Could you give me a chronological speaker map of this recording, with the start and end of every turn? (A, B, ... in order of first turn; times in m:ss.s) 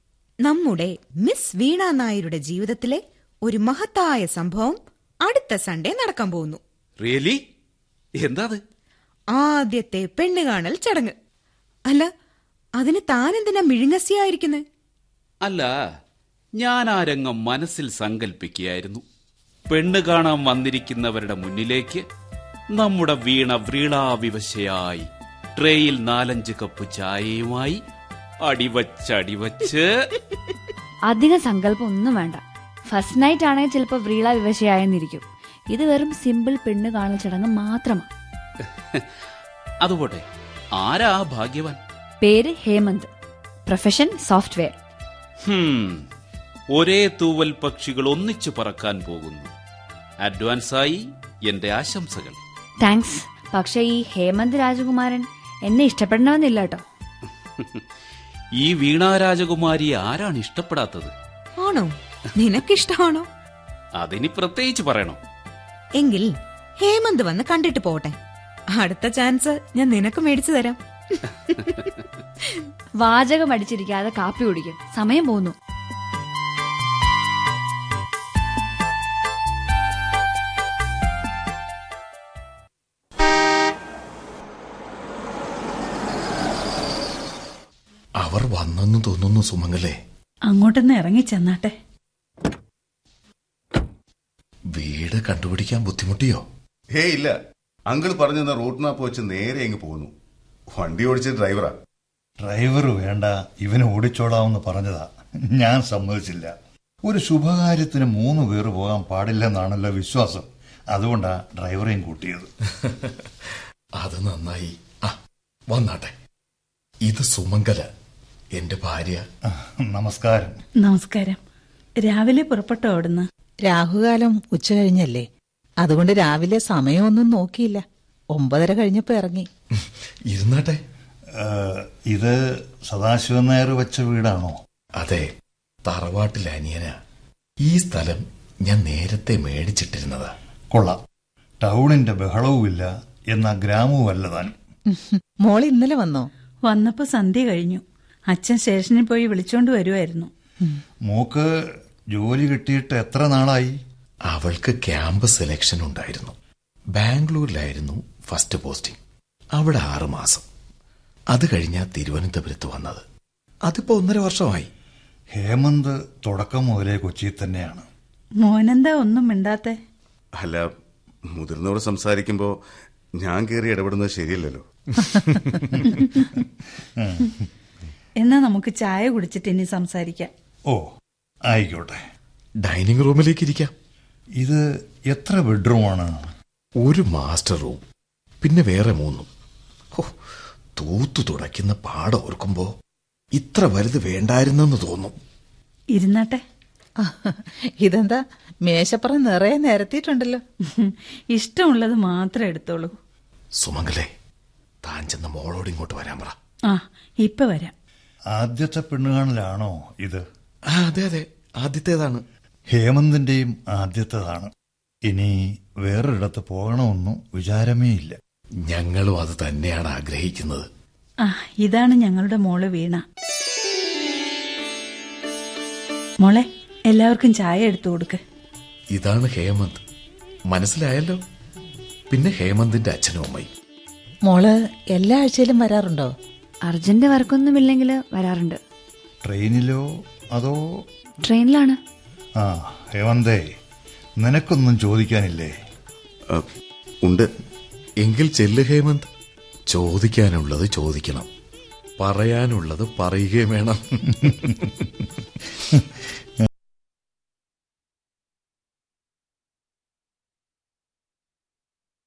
0:00.4-0:06.6 A
0:07.0-0:07.4 B
0:08.2-0:08.6 B
0:09.3-0:11.1 A
0:12.8-0:14.6 A
0:15.4-0:15.8 B
0:16.6-0:19.0 B
0:19.7-0:22.0 B
0:22.7-0:27.8 B
0:28.4-0:30.1 B
0:31.1-0:38.1 C
0:38.6-0:39.1 B
0:39.8-0:40.2 B
0:40.8-0:41.8 B
0:42.2-0:43.1 C
0:43.6-0:44.7 C
0:45.4-0:46.0 B
0:46.7-0:49.5 B
0:50.2-0:52.4 B
0:52.8-0:56.8 C
0:57.6-0:57.8 B
0:58.6-1:01.1 B
1:01.6-1:03.3 A
1:04.0-1:05.2 B
1:06.0-1:08.1 A
1:08.7-1:11.9 A
1:13.0-1:15.5 C
1:28.2-1:30.0 D
1:30.5-1:31.7 E
1:34.7-1:36.4 D
1:36.9-1:37.4 F
1:37.9-1:40.1 F
1:40.7-1:41.7 F
1:42.4-1:52.5 G
1:52.8-1:55.2 D
1:55.7-1:56.1 D
1:57.0-1:57.9 D
1:58.5-1:59.3 D
1:59.4-2:00.6 G
2:00.8-2:01.4 E
2:02.0-2:03.3 E
2:03.6-2:05.3 H
2:05.8-2:09.5 H
2:09.7-2:10.8 D
2:11.3-2:14.6 G
2:15.0-2:15.3 D
2:15.8-2:17.0 D
2:17.6-2:20.3 D
2:20.7-2:21.0 G
2:21.6-2:24.5 G
2:24.9-2:26.3 H
2:26.6-2:30.3 E
2:31.0-2:31.5 G
2:32.1-2:33.7 G
2:34.2-2:36.3 D
2:36.9-2:39.0 D
2:39.5-2:40.4 D
2:41.3-2:43.0 D
2:43.6-2:44.7 D
2:45.3-2:47.9 G
2:48.4-2:49.8 E
2:50.4-2:50.7 F
2:51.3-2:52.6 F
2:53.2-2:55.5 F
2:55.8-2:57.4 G
2:58.2-3:00.3 E
3:01.5-3:02.0 G
3:02.6-3:03.7 D
3:04.4-3:06.3 G
3:06.8-3:07.8 D
3:08.4-3:09.3 D
3:10.8-3:12.7 D
3:13.3-3:15.1 D
3:15.9-3:16.4 E
3:17.0-3:20.4 H
3:20.6-3:23.0 E
3:23.6-3:24.1 D
3:24.8-3:26.4 D
3:26.7-3:27.7 E
3:28.3-3:30.2 G
3:30.6-3:32.2 D
3:32.7-3:34.5 G
3:35.1-3:38.2 G
3:38.6-3:40.7 D
3:41.2-3:43.0 E
3:46.2-3:48.2 E
3:48.9-3:49.8 D
3:50.5-3:51.2 D
3:52.1-3:53.5 D
3:54.3-3:56.1 H
3:56.6-3:58.6 C
3:59.2-4:00.6 G
4:01.2-4:01.8 C
4:02.4-4:03.4 G
4:04.2-4:05.5 G
4:07.0-4:07.3 F
4:08.0-4:09.1 D
4:09.7-4:11.3 D
4:12.0-4:14.9 D